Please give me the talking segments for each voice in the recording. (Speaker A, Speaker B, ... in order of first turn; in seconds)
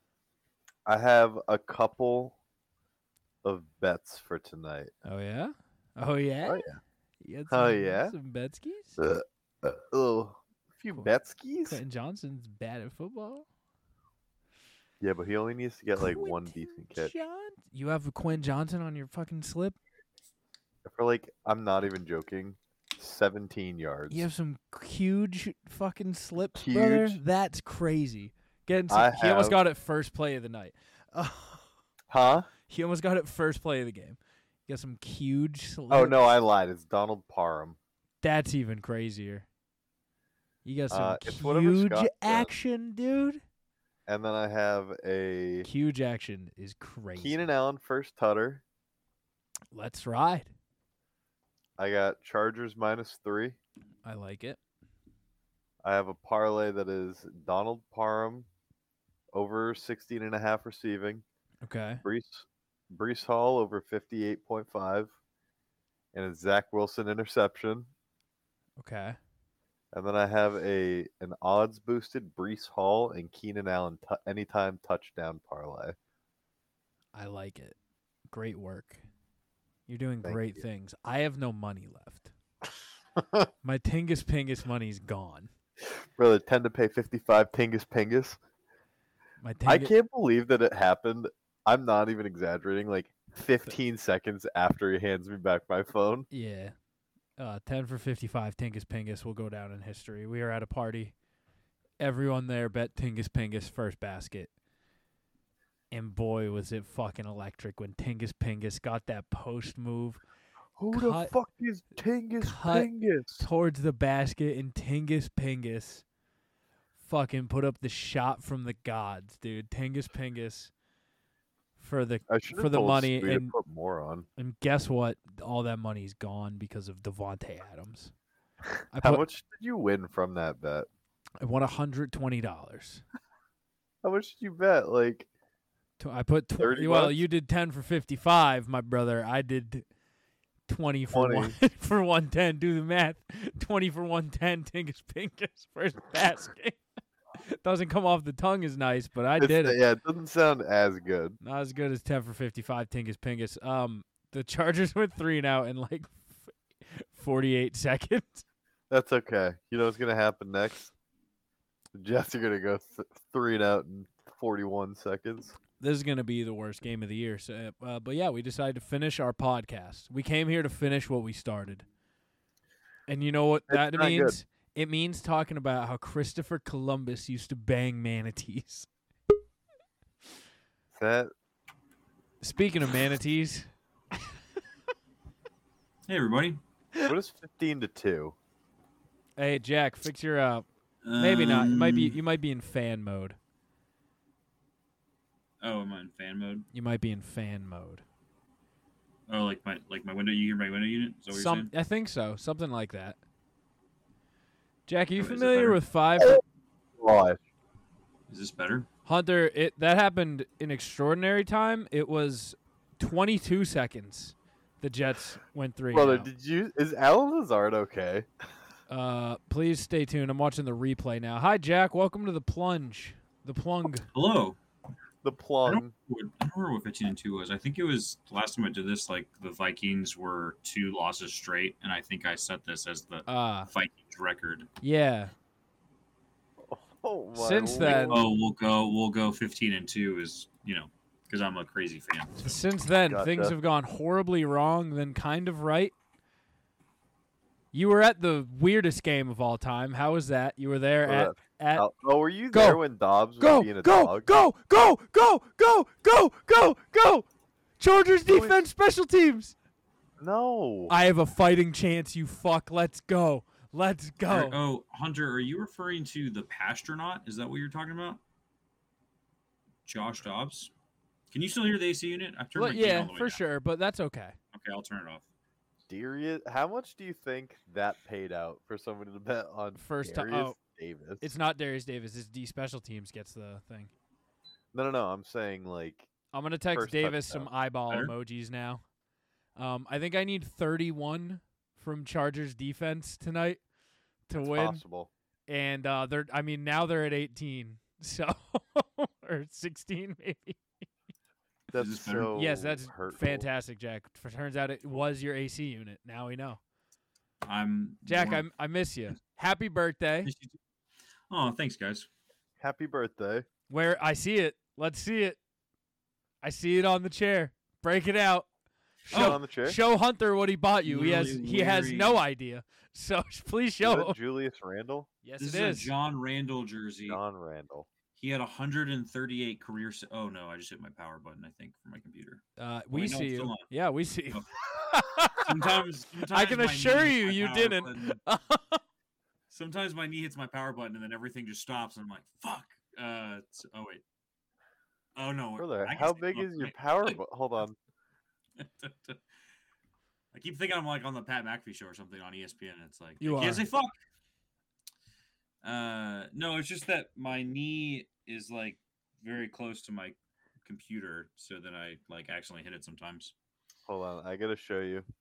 Speaker A: 0.9-2.4, 3.4-4.9, 6.4-6.8, 7.5-8.1, 9.0-11.8, 15.0-17.1, 20.9-24.3, 26.5-27.2, 28.9-29.6, 32.1-32.5, 35.9-37.8, 40.9-42.5, 44.1-45.7, 47.1-48.6, 51.8-53.6, 55.8-58.5, 59.3-61.2, 62.0-65.1, 66.1-67.9, 69.9-76.0, 80.2-80.6, 83.2-83.5, 85.8-88.4, 89.7-96.3, 110.8-113.5, 122.3-124.2, 128.9-130.9, 134.0-135.3, 136.6-137.2, 141.1-141.6, 149.4-151.4, 158.9-160.9, 161.9-165.6, 173.7-174.4, 180.9-181.3, 187.1-188.3, 207.0-207.4, 215.9-218.3, 225.2-225.9, 236.6-238.3, 243.1-243.6, 251.0-254.4, 258.3-258.7, 260.2-260.9, 275.9-281.3, 284.7-286.1, 286.7-287.5, 294.4-295.1, 301.7-303.5, 312.6-313.5, 319.1-319.8, 323.8-325.1, 327.1-327.9, 345.6-347.8, 363.9-365.1
Speaker B: 5.0-6.6, 7.2-9.0, 11.7-13.5, 16.0-19.8, 24.1-31.7, 32.7-36.2, 38.2-39.5, 40.6-43.4, 45.6-47.4, 49.7-50.5, 54.0-54.6, 61.6-62.0, 68.8-69.2, 77.1-77.8, 78.3-79.0, 79.9-82.3, 83.6-85.5, 89.4-89.9, 96.3-96.8, 97.4-101.1, 102.0-104.5, 105.9-110.2, 110.9-111.3, 112.4-116.0, 117.0-120.7, 121.8-123.5, 124.4-128.1, 128.9-129.2, 131.4-133.0, 136.0-139.8, 140.7-146.8, 147.5-149.8, 151.4-158.4, 165.8-171.8, 173.1-178.9, 182.4-183.7, 189.4-190.7, 191.2-193.4, 196.7-198.0, 201.3-203.2, 204.9-206.4, 209.1-216.3, 218.9-224.1, 233.2-233.7, 234.8-235.3, 237.3-238.2, 242.3-245.9, 247.7-251.9, 252.5-252.8, 253.4-257.2, 257.8-259.5, 260.9-264.6, 272.5-274.4, 279.8-280.6, 281.2-283.9, 286.3-288.8, 289.6-293.6, 294.3-294.8, 295.5-300.6, 302.3-306.6, 308.1-310.3, 313.7-315.4, 316.4-318.5, 319.1-324.2, 325.2-325.9, 332.6-335.5, 336.3-338.8, 353.2-353.6
Speaker C: 186.1-186.6, 191.0-192.2, 195.6-196.7, 199.3-201.7, 205.2-205.8, 208.3-208.9, 224.1-224.6, 225.7-234.7, 237.9-242.6, 264.3-268.2, 269.9-270.7, 271.3-273.4, 274.5-275.2, 301.7-302.3, 307.4-308.5, 310.2-310.6, 311.3-312.1, 319.1-319.4, 320.8-322.2, 325.4-327.2, 328.1-333.7, 335.3-338.2, 339.5-344.0, 345.1-347.2, 348.6-349.2, 350.3-353.9, 355.6-363.3